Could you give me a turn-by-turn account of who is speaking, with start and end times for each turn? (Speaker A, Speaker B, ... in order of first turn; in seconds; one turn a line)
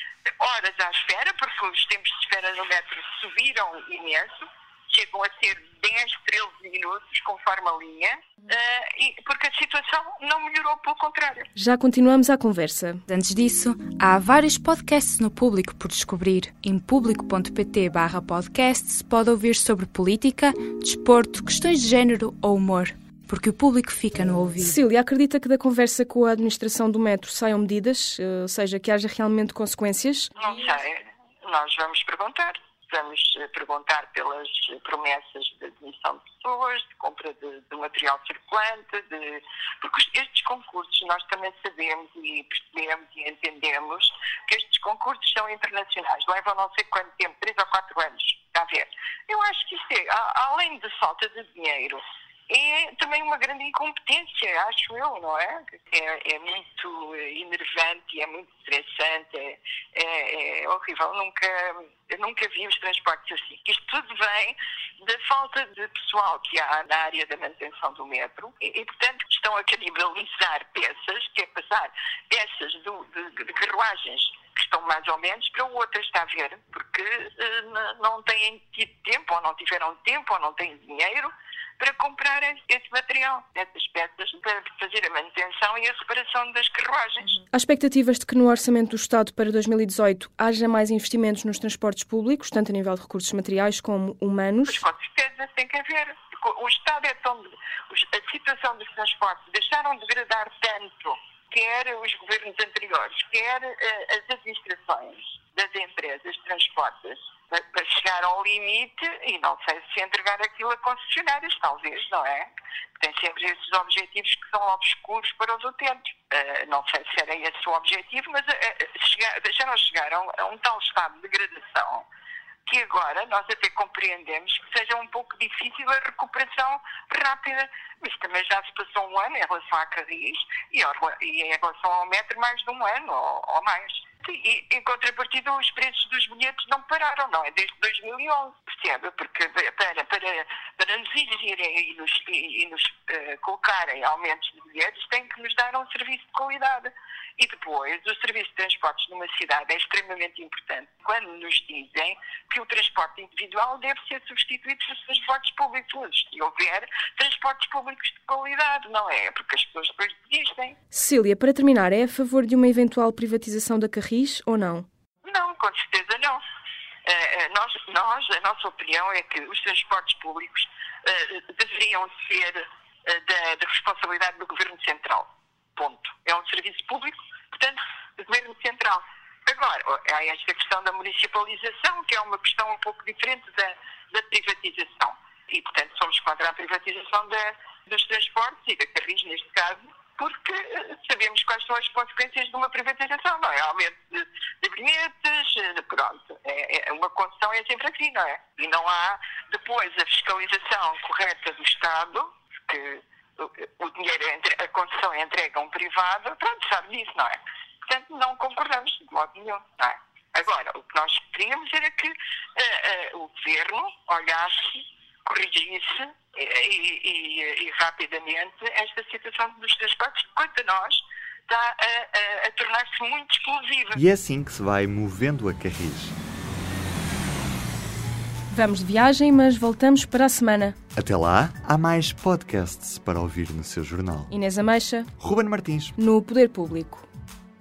Speaker A: 0.4-11.5
Speaker B: 11.6-13.0
Speaker C: 13.1-24.8
Speaker B: 24.6-30.6
Speaker A: 30.4-87.4
Speaker B: 87.5-94.8
Speaker A: 94.7-122.1
Speaker A: 122.7-160.8
Speaker B: 160.9-164.9
Speaker A: 165.2-166.4
Speaker A: 167.1-224.0
Speaker D: 223.9-226.2
Speaker B: 228.5-230.8
Speaker D: 231.0-234.3
Speaker B: 234.3-235.1
Speaker D: 235.2-236.0
Speaker B: 236.0-237.1